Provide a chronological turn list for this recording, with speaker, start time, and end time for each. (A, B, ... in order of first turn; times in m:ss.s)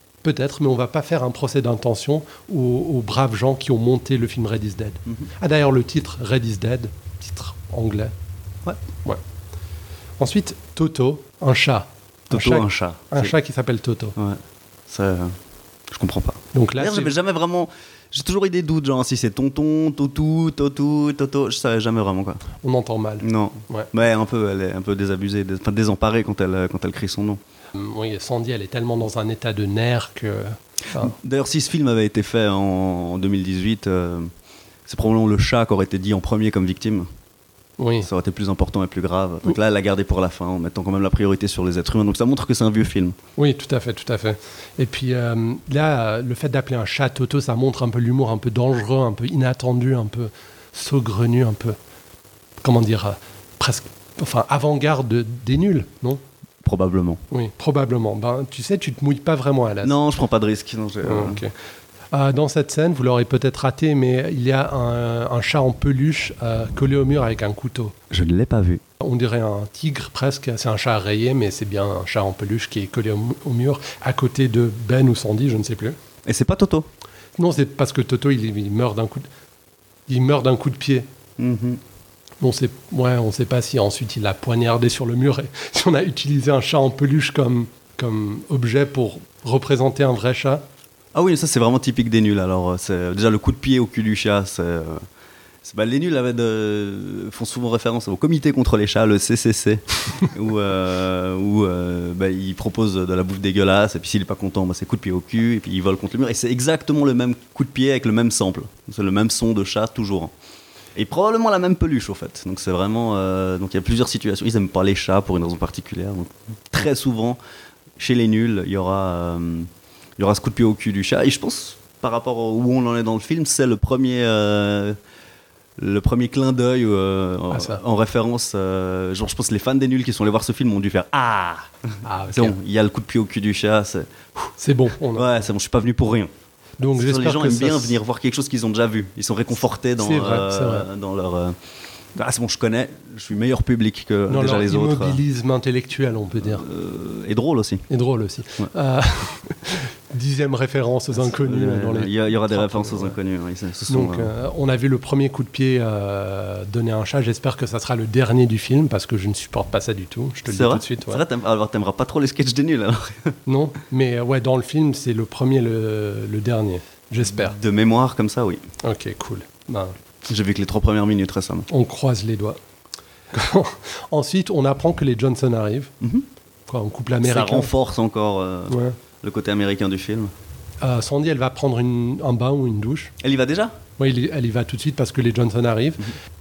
0:00.2-0:08.1 A
0:10.2-0:14.1 A
0:12.3-0:13.3 B
0:14.2-0:15.4 B
0:15.9-0:22.4 B
0:16.5-0:17.1 A
0:22.6-0:23.9 A
0:23.2-0:27.4 B
0:27.7-0:31.1 A
0:30.9-0:34.3 B
0:34.8-0:37.1 B
0:37.8-0:38.1 A
0:38.0-0:43.2 B
0:43.4-0:51.8 A
0:52.6-0:56.2 A
0:56.6-0:57.2 B
0:57.3-0:59.9 A
0:59.8-1:01.4 B
1:01.0-1:01.5 A
1:02.1-1:07.9 A
1:08.1-1:08.8 B
1:09.0-1:15.9 A
1:16.2-1:16.9 B
1:17.4-1:19.2 A
1:20.1-1:21.0 A
1:21.4-1:21.8 B
1:22.4-1:30.6 A
1:31.1-1:35.0 B
1:35.6-1:50.3 B
1:51.0-1:57.4 B
1:58.0-2:05.0 B
2:05.8-2:11.7 B
2:07.5-2:07.8 A
2:12.0-2:12.5 A
2:12.3-2:14.5 B
2:14.6-2:15.3 A
2:15.1-2:16.3 B
2:16.8-2:18.0 A
2:16.9-2:21.6 B
2:20.0-2:20.9 A
2:22.1-2:25.2 B
2:24.3-2:26.6 A
2:26.4-2:27.8 B
2:27.9-2:33.2 A
2:31.1-2:34.3 B
2:33.9-2:41.2 A
2:40.4-2:43.3 B
2:43.4-2:47.6 A
2:47.3-2:48.6 B
2:48.8-2:49.9 A
2:50.2-2:51.7 B
2:51.7-2:52.6 A
2:53.3-2:55.9 A
2:56.0-2:56.2 B
2:56.7-2:57.7 A
2:57.2-3:00.3 B
2:58.7-2:59.0 A
3:00.8-3:03.1 A
3:03.2-3:03.7 B
3:04.0-3:06.1 A